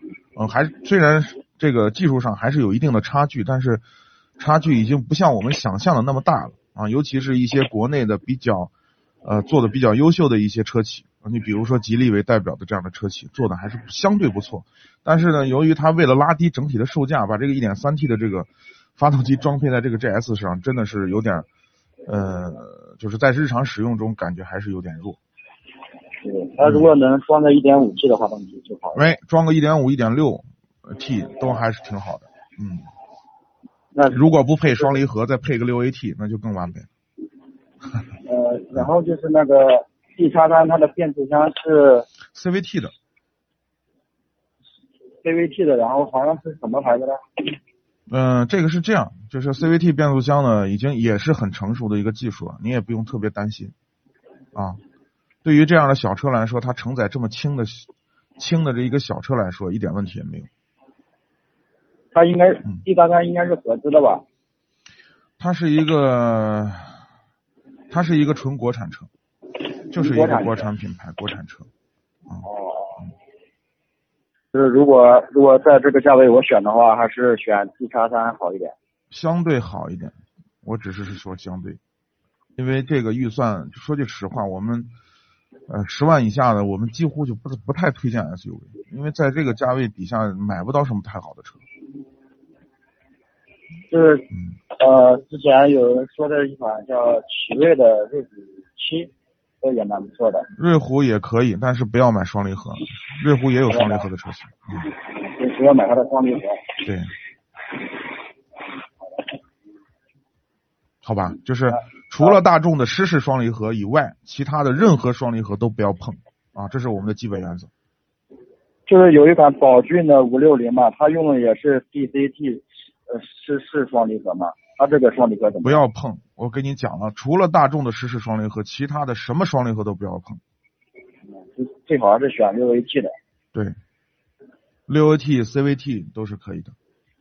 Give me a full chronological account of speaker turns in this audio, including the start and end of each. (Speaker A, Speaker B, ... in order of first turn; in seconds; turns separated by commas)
Speaker A: 0.4-3.8, Speaker A: 4.4-8.7, Speaker A: 9.2-21.5, Speaker A: 22.1-25.2, Speaker B: 26.2-29.1, Speaker A: 26.6-26.9, Speaker A: 28.9-32.9, Speaker B: 34.0-34.9, Speaker A: 34.1-36.9, Speaker B: 38.2-42.1, Speaker A: 42.3-42.9, Speaker B: 45.2-47.2, Speaker A: 48.1-53.7, Speaker A: 54.5-54.8, Speaker A: 55.4-57.9, Speaker A: 58.4-60.5, Speaker B: 62.1-64.2, Speaker A: 65.4-67.0, Speaker A: 67.9-69.1, Speaker B: 69.9-70.7, Speaker A: 69.9-71.7, Speaker B: 72.4-73.1, Speaker B: 74.5-78.7, Speaker A: 79.1-81.8, Speaker A: 82.6-84.9, Speaker A: 85.7-91.6, Speaker B: 93.9-99.1, Speaker B: 99.6-100.5, Speaker A: 100.6-104.9, Speaker B: 103.7-104.1, Speaker B: 104.8-106.6, Speaker A: 106.8-107.1, Speaker A: 111.0-117.7, Speaker B: 118.9-125.8, Speaker A: 125.6-130.4, Speaker B: 131.4-133.1, Speaker A: 134.9-136.7